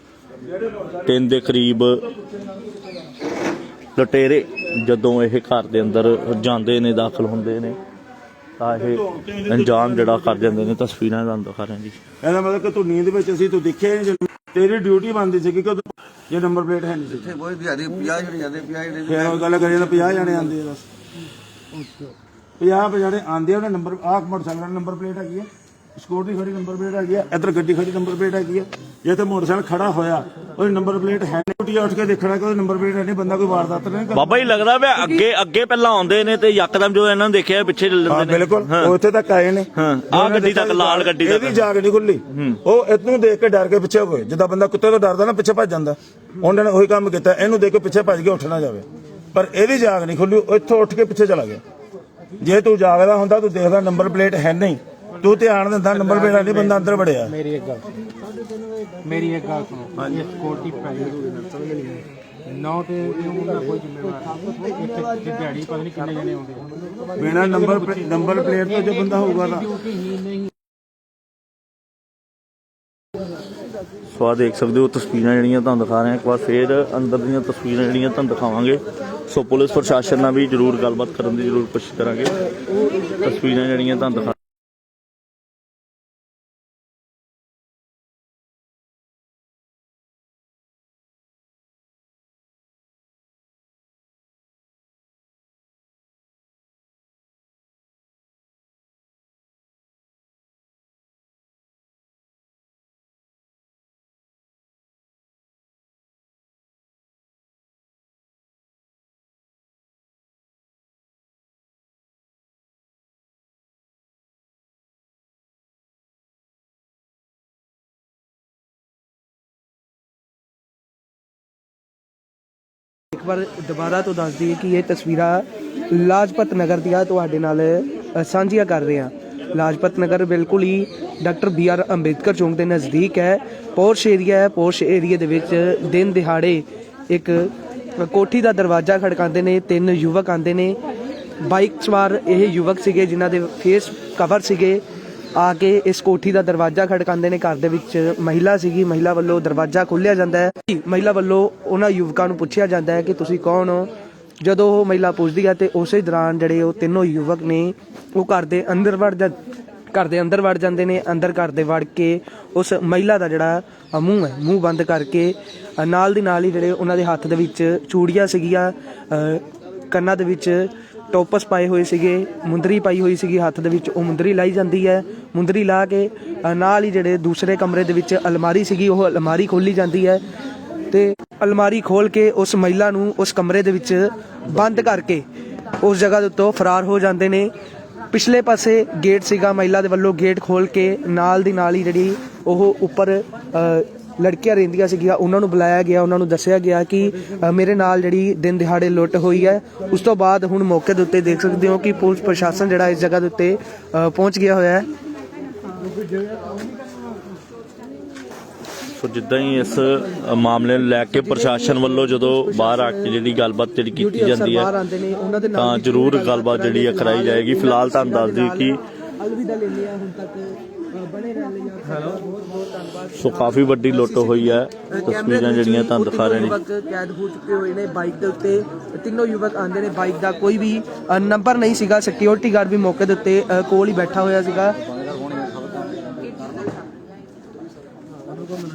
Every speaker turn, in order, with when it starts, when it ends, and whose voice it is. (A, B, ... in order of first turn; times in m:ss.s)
0:01.0-0:02.0 A
0:03.9-0:07.8 A
0:08.6-0:12.0 A
0:08.8-0:10.5 B
0:12.2-0:17.3 B
0:17.1-0:19.6 C
0:19.1-0:20.8 B
0:22.6-0:34.3 B
0:34.1-0:38.9 A
0:38.1-0:51.6 B
0:39.7-0:41.6 A
0:42.3-0:42.6 A
0:52.4-0:57.3 B
0:57.5-0:57.8 D
0:59.0-1:01.3 D
1:00.0-1:00.3 B
1:02.5-1:06.6 D
1:07.2-1:09.7 B
1:14.1-1:22.3 A
1:23.2-1:24.4 A
2:03.1-2:20.8 E
2:21.4-2:24.8 E
2:25.4-2:39.3 E
2:39.9-3:00.2 E
3:00.9-3:05.2 E
3:05.8-3:07.5 E
3:08.1-3:24.9 E
3:29.0-3:34.7 A
3:31.2-3:33.1 E
3:34.0-3:38.7 E
3:35.5-3:38.8 A
3:39.2-3:54.8 E
3:43.2-3:46.6 A